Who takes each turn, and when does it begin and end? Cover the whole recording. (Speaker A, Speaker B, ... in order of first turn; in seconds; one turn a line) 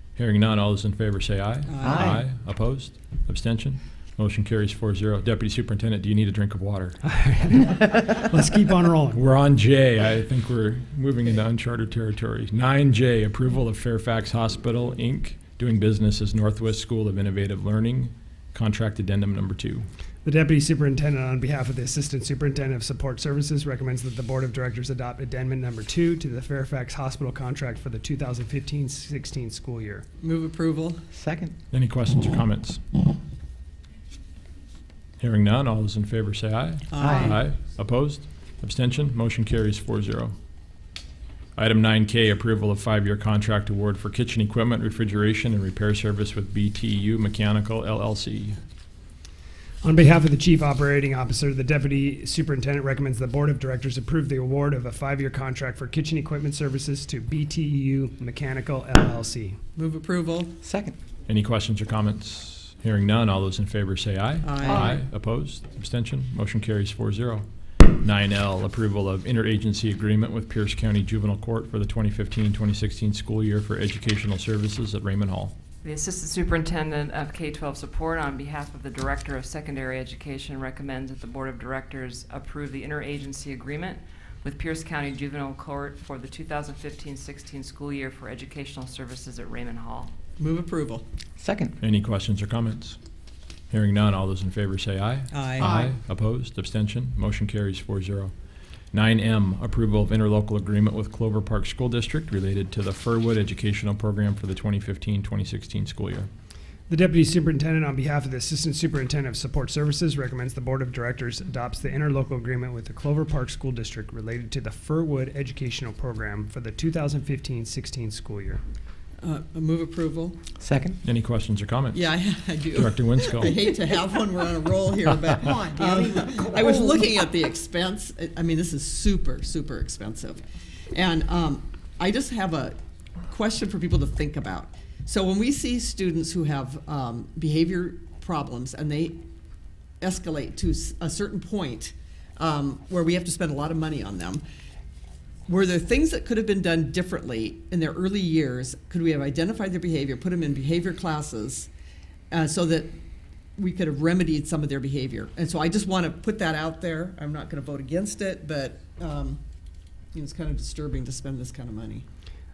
Speaker A: 0.2-7.0
Speaker B: 1.7-2.2
Speaker C: 1.8-2.2
Speaker D: 7.0-9.2
Speaker A: 9.1-19.9
Speaker D: 20.2-30.1
Speaker B: 30.2-31.1
Speaker C: 31.1-31.6
Speaker A: 31.7-32.8
Speaker A: 35.2-40.4
Speaker B: 36.9-37.4
Speaker C: 37.0-37.4
Speaker A: 41.6-48.6
Speaker D: 49.8-59.6
Speaker B: 59.8-60.6
Speaker C: 60.6-61.0
Speaker A: 61.3-67.5
Speaker B: 64.4-65.0
Speaker A: 68.0-75.5
Speaker E: 75.8-90.1
Speaker B: 90.4-91.1
Speaker C: 91.4-91.8
Speaker A: 91.8-93.0
Speaker A: 93.7-98.3
Speaker B: 95.3-95.9
Speaker A: 98.9-106.3
Speaker D: 106.9-118.6
Speaker B: 119.2-120.4
Speaker C: 120.6-121.0
Speaker A: 121.0-122.1
Speaker B: 121.9-139.2
Speaker A: 122.7-123.5
Speaker B: 140.0-144.4
Speaker B: 145.5-151.7
Speaker B: 152.3-153.0
Speaker B: 153.6-159.4
Speaker B: 160.1-162.1